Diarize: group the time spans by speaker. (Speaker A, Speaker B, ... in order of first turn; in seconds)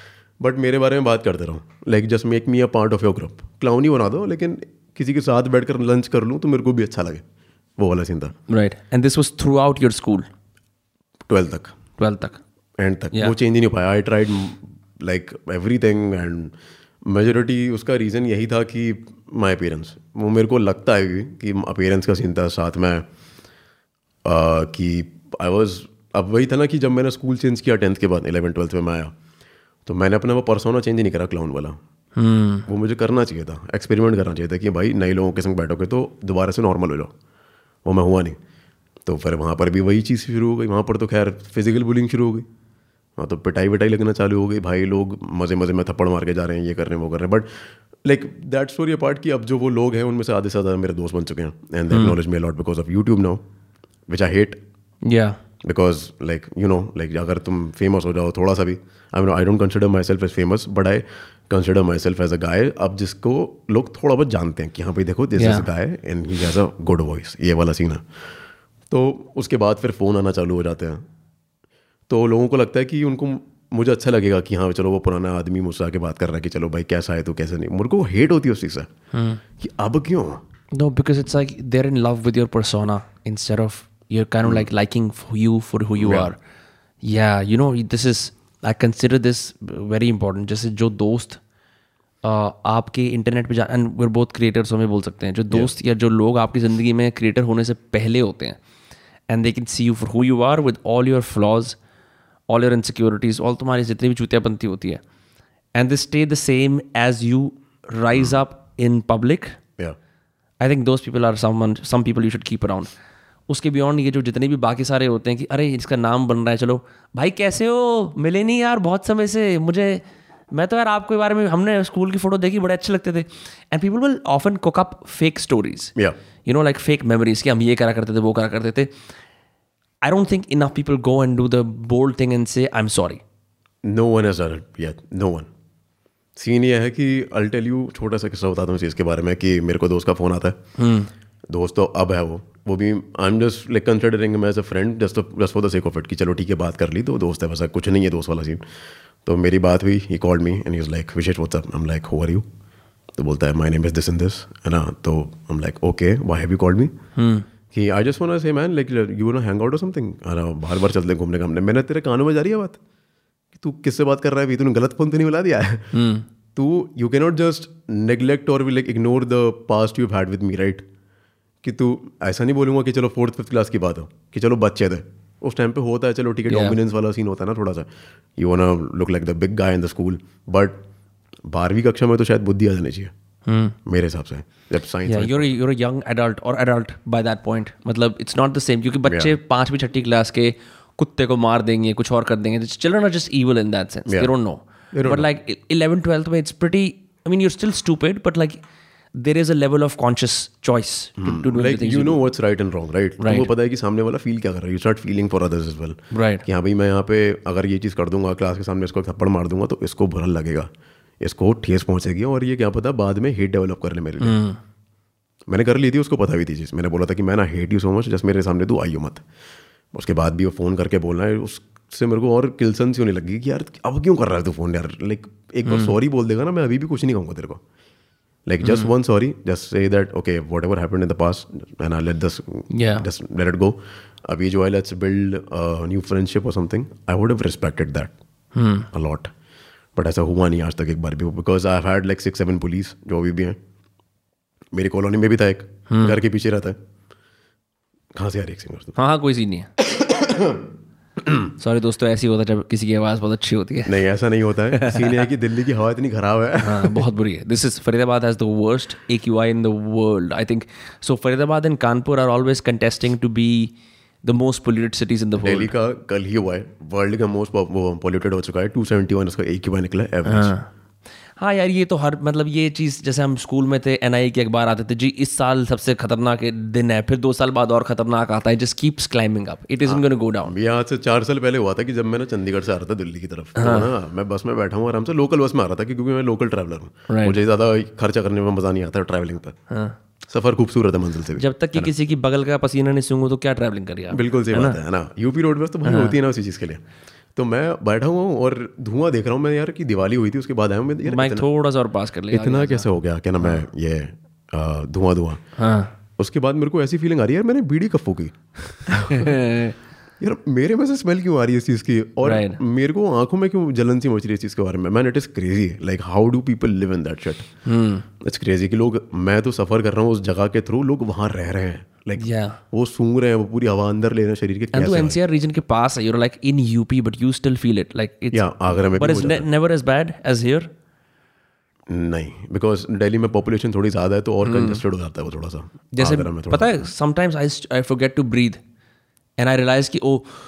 Speaker A: 0.4-7.2, 7.8-8.3, 11.3-11.7, 12.8-16.5, 17.0-23.0, 24.2-29.1, 29.9-31.8, 32.7-37.1, 37.8-38.4, 39.0-42.5, 43.2-53.4, 54.1-54.6, 55.6-68.0, 68.9-71.0, 72.1-78.9, 79.6-80.4, 86.0-86.3, 133.8-135.5, 136.3-140.6, 141.5-148.6, 149.2-152.4, 153.2-156.9, 157.7-162.8, 163.5-165.9, 166.6-170.8, 171.6-180.8, 181.5-183.1, 183.8-185.5, 189.1-189.3, 194.1-194.3, 194.9-195.3, 201.2-210.7, 211.2-214.4, 215.5-219.2, 219.9-227.6, 228.4-238.1, 238.9-239.3, 239.9-243.6, 244.7-246.8, 248.1-248.9, 249.8-250.7, 251.2-251.5, 253.8-257.1, 265.4-270.5, 279.8-289.6, 290.3-291.9, 294.1-296.8, 297.4-301.4, 302.3-305.4, 306.2-309.4, 310.2-317.5, 318.2-325.2, 328.3-329.4, 331.9-336.9
Speaker B: 8.5-10.3, 12.0-12.4, 32.1-32.7, 55.0-55.4, 65.4-65.7, 79.1-79.4, 80.7-86.4, 87.0-91.4, 92.2-98.6, 99.3-101.8, 102.5-105.0, 105.7-109.6, 110.6-112.9, 113.5-125.9, 126.4-128.9, 130.0-133.2, 140.8-141.1, 157.2-157.5, 165.9-166.2, 176.5-176.8, 183.5-183.8, 185.1-198.6, 199.1-202.2, 203.2-203.5, 206.1-206.4, 214.2-214.6, 225.7-225.9, 228.6-228.9, 232.7-233.1, 238.5-238.9, 245.9-246.2, 248.9-249.7, 251.6-254.0, 254.7-255.2, 256.6-263.7, 264.2-265.7, 270.2-270.7, 271.4-280.5, 283.6-283.9, 287.1-287.4, 289.7-289.9, 291.4-294.8, 295.8-296.1, 301.1-302.9, 305.6-305.9, 309.1-309.8, 312.2-312.6, 317.6-318.1, 322.2-322.6, 324.7-330.7, 334.4-334.8, 335.9-338.6, 339.4-340.3